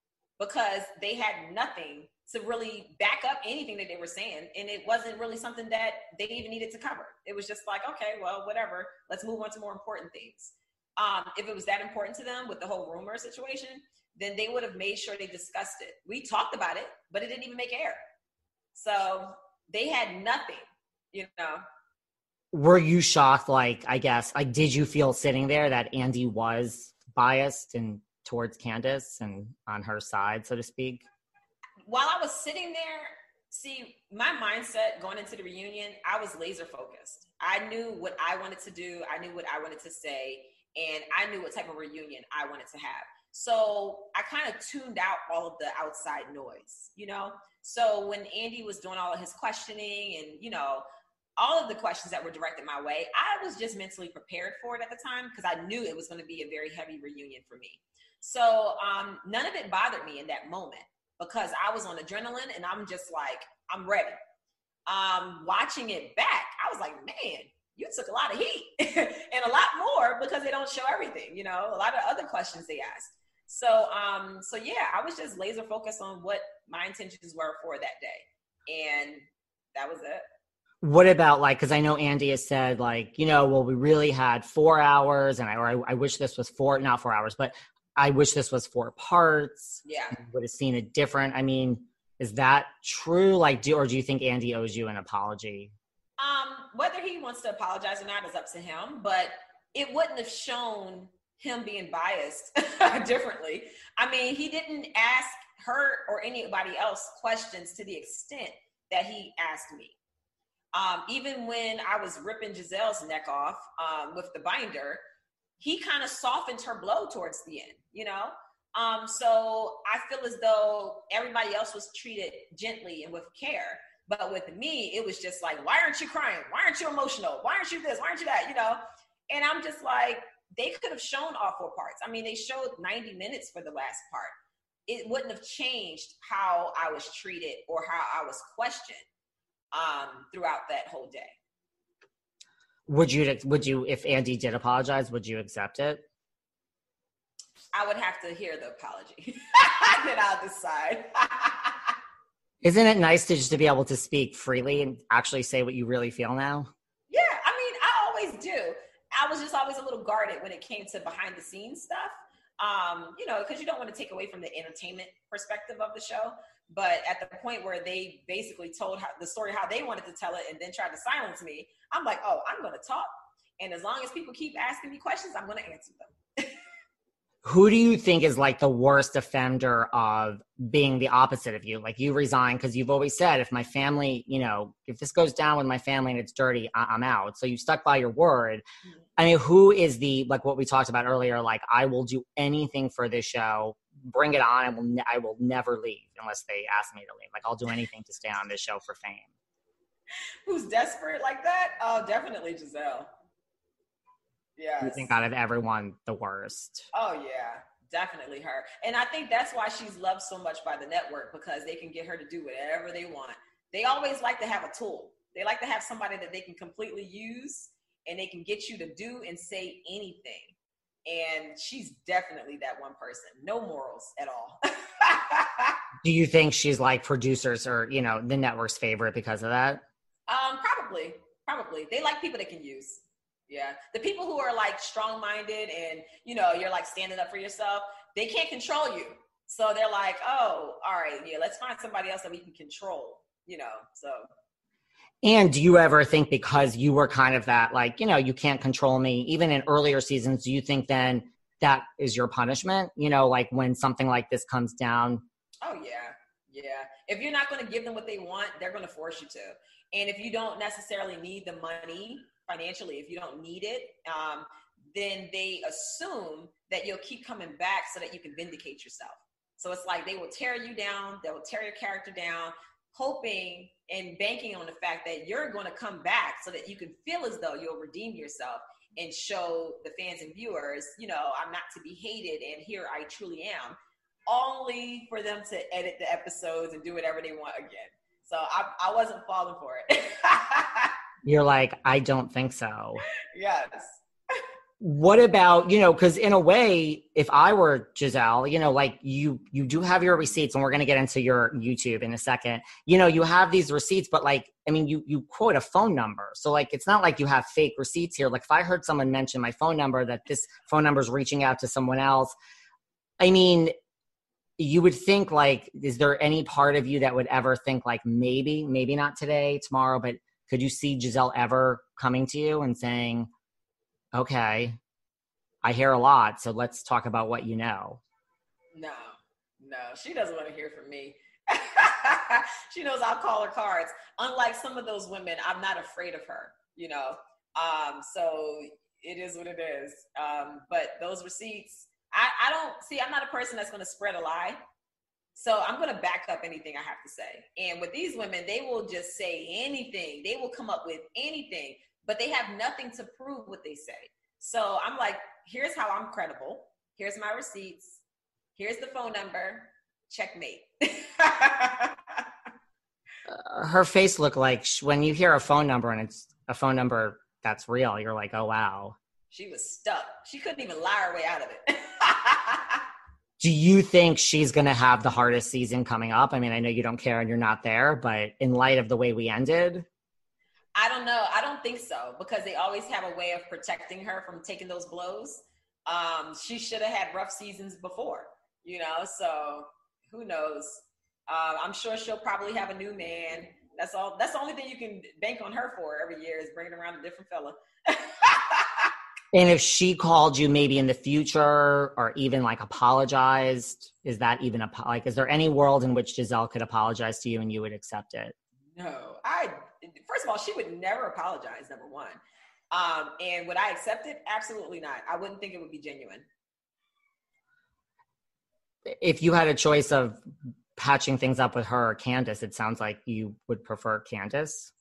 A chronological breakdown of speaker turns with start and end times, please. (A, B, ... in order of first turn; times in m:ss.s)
0:00.4-0:18.0 A
0:18.8-0:21.6 A
0:22.5-0:31.0 B
0:31.9-0:50.8 A
0:51.4-1:04.2 A
1:04.9-1:19.2 A
1:19.8-1:20.3 A
1:20.8-1:35.7 B
1:29.8-1:30.2 A
1:36.2-1:50.0 A
1:50.7-1:55.0 A
1:55.6-2:14.3 A
2:14.9-2:19.0 A
2:19.7-2:21.4 A
2:22.9-2:26.0 B
2:27.7-2:31.9 A
2:32.6-2:36.7 B
2:37.1-2:56.5 A
2:57.4-3:08.6 B
3:09.2-3:19.3 B
3:20.4-3:23.1 A
3:24.6-3:25.1 A
3:24.8-3:26.9 B
3:26.9-3:40.5 A
3:41.1-3:45.8 A
3:46.0-3:49.8 B
3:50.3-4:04.3 A
4:05.2-4:15.2 B
4:15.6-4:50.9 A
4:51.2-4:53.0 B
4:53.3-4:54.0 A
4:54.8-5:12.4 B
5:13.2-5:13.7 B
5:14.6-5:23.3 B
5:24.1-5:24.8 B
5:25.6-5:28.0 B
5:28.7-5:44.6 A
5:45.4-5:58.0 A
5:58.6-6:02.2 A
6:03.3-6:09.0 B
6:09.3-6:12.8 A
6:13.4-6:19.9 B
6:20.8-6:38.9 A
6:39.3-6:48.4 B
6:48.8-6:52.2 A
6:52.7-6:56.3 A
6:58.9-7:00.2 B
7:00.8-7:04.7 B